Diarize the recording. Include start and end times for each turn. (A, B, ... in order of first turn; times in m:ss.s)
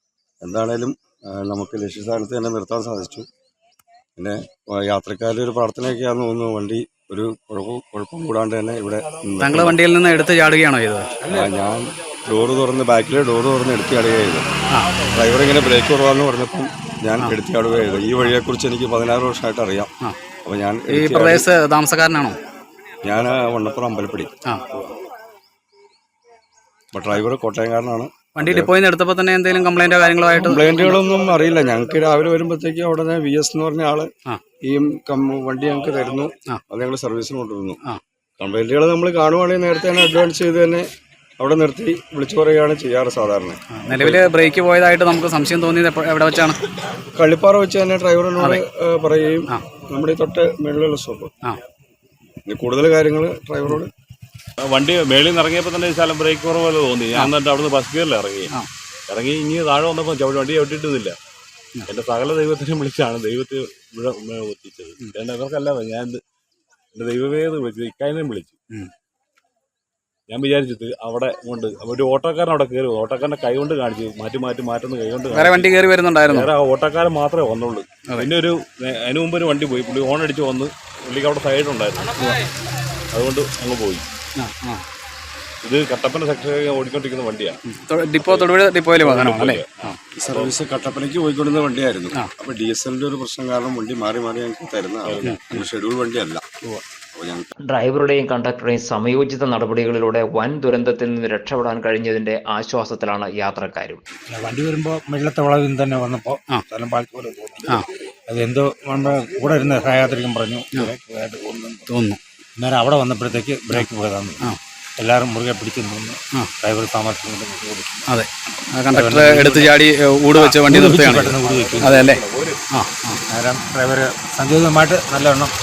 0:00.4-0:03.3 A
0:04.2-0:09.8 A
0:09.4-0:11.2 B
0:11.2-0:14.5 A
0:15.1-0:19.9 A
0:20.4-0:21.5 A
0:20.9-0:22.4 B
0:23.0-0:24.3 A
0:26.9-0:28.7 A
0:28.4-0:31.0 B
0:30.4-0:34.1 A
0:34.6-0:37.8 A
0:38.4-0:44.3 A
0:43.7-0:46.6 B
0:47.1-0:51.3 A
0:52.5-0:53.9 A
0:54.6-0:58.5 C
0:59.1-1:01.2 C
1:01.9-1:06.2 C
1:06.9-1:08.6 C
1:10.3-1:22.4 C
1:15.3-1:16.5 B
1:18.0-1:18.3 B
1:23.1-1:24.0 C
1:24.4-1:24.8 B
1:25.6-1:27.6 C
1:27.7-1:30.0 B
1:28.2-1:30.5 C
1:30.2-1:36.4 A
1:35.0-1:35.6 C
1:35.2-1:35.6 B
1:37.1-1:37.5 A
1:37.7-1:44.0 D
1:44.3-1:51.9 E
1:51.9-1:52.2 B
1:52.6-1:58.2 E
1:58.1-2:03.2 B
1:58.9-1:59.8 E
2:00.3-2:02.1 E
2:01.4-2:02.6 C
2:03.3-2:05.5 E